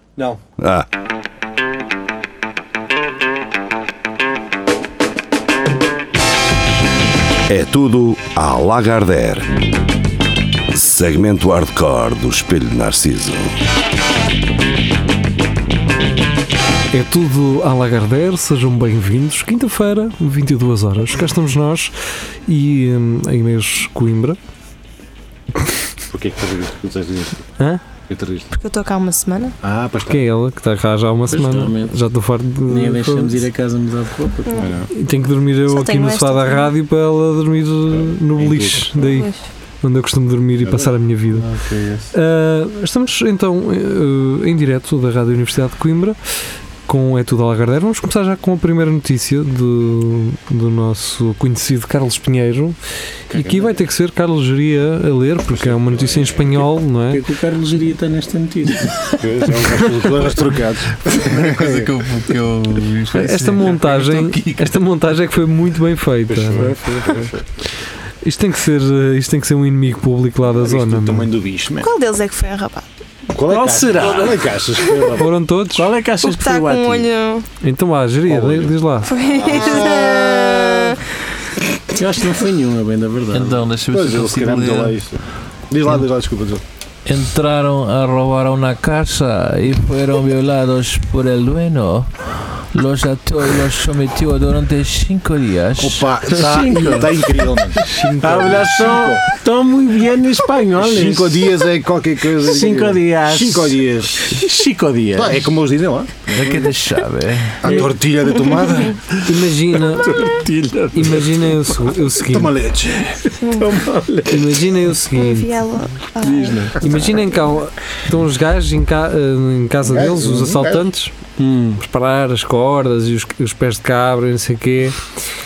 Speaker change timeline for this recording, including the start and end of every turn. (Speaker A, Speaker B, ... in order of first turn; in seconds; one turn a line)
Speaker A: 0.6-0.9
Speaker A: 7.5-9.6
Speaker A: 10.7-13.5
Speaker B: 16.9-21.9
Speaker B: 22.5-24.4
Speaker C: 26.1-27.4
Speaker C: 28.1-28.5
Speaker D: 28.5-29.5
Speaker C: 29.6-30.2
Speaker B: 30.1-33.4
Speaker E: 31.3-32.0
Speaker E: 32.7-34.7
Speaker D: 34.5-34.7
Speaker C: 34.6-34.9
Speaker B: 34.9-39.3
Speaker D: 35.7-36.7
Speaker C: 37.9-39.1
Speaker D: 39.0-39.4
Speaker B: 39.8-41.5
Speaker C: 40.6-40.9
Speaker E: 41.3-42.1
Speaker B: 42.1-46.2
Speaker B: 46.9-52.8
Speaker B: 53.3-57.2
Speaker C: 53.3-53.7
Speaker C: 55.5-56.7
Speaker E: 57.1-59.1
Speaker C: 59.1-61.9
Speaker F: 61.1-64.7
Speaker B: 63.1-66.7
Speaker C: 66.3-67.3
Speaker E: 66.5-67.4
Speaker B: 68.2-71.3
Speaker C: 70.5-71.9
Speaker D: 71.8-72.8
Speaker C: 73.3-75.3
Speaker E: 73.4-74.4
Speaker B: 75.2-75.9
Speaker E: 75.7-77.1
Speaker D: 76.2-77.5
Speaker B: 77.6-79.1
Speaker C: 78.3-78.7
Speaker D: 79.0-81.0
Speaker C: 79.4-80.8
Speaker E: 81.9-83.7
Speaker F: 83.3-85.0
Speaker C: 83.9-85.2
Speaker C: 85.7-86.6
Speaker F: 87.0-96.3
Speaker C: 95.8-97.8
Speaker E: 96.3-97.2
Speaker B: 97.8-98.7
Speaker E: 98.2-101.4
Speaker C: 98.4-99.2
Speaker C: 100.8-104.4
Speaker E: 102.4-103.8
Speaker E: 104.3-105.4
Speaker C: 105.2-106.7
Speaker F: 106.3-107.7
Speaker C: 107.6-109.0
Speaker B: 109.2-110.3
Speaker E: 109.7-111.9
Speaker B: 110.9-112.5
Speaker C: 112.2-113.0
Speaker E: 113.2-114.8
Speaker D: 113.4-113.7
Speaker B: 114.3-115.5
Speaker D: 115.1-116.9
Speaker E: 116.2-117.0
Speaker B: 116.8-121.1
Speaker C: 119.8-120.8
Speaker E: 121.4-121.8
Speaker B: 121.8-125.0